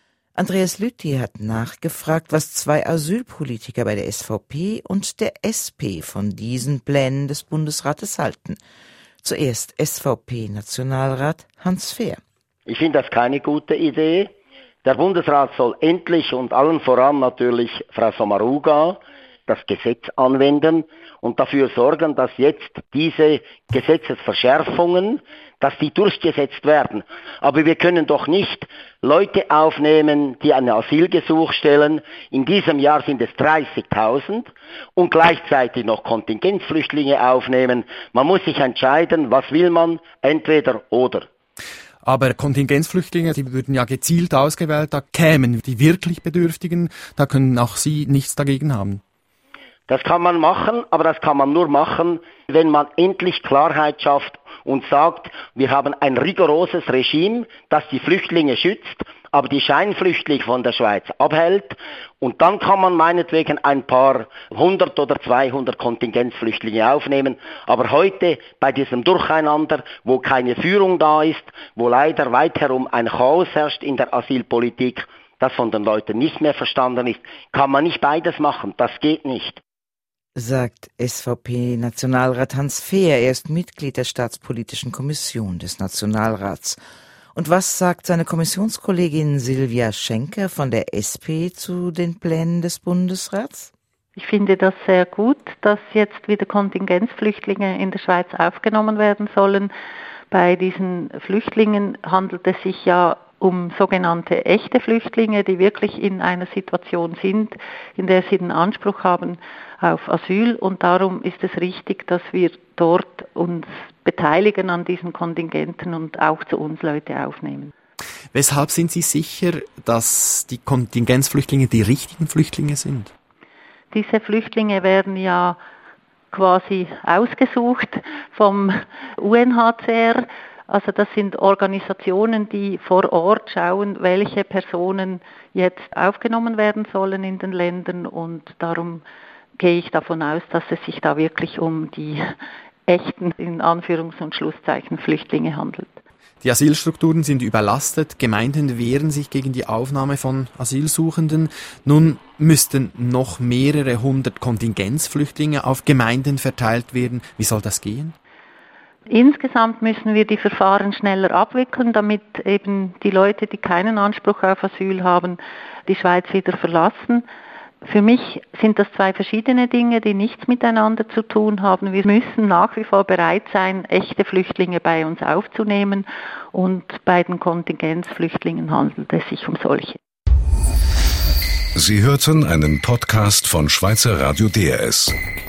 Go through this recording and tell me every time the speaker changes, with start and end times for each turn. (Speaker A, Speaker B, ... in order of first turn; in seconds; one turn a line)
Speaker A: 0.3-8.6
Speaker A: 9.2-12.2
Speaker B: 12.7-14.3
Speaker B: 14.8-41.3
Speaker C: 42.0-49.0
Speaker B: 49.9-79.6
Speaker A: 80.3-86.8
Speaker A: 87.4-93.7
Speaker D: 94.2-99.7
Speaker D: 100.3-117.7
Speaker C: 118.3-123.1
Speaker D: 123.9-125.6
Speaker D: 126.3-139.0
Speaker D: 139.6-142.2
Speaker D: 142.9-146.0
Speaker C: 146.4-158.2
Speaker D: 159.1-167.3
Speaker D: 167.8-180.0
Speaker E: 181.8-185.2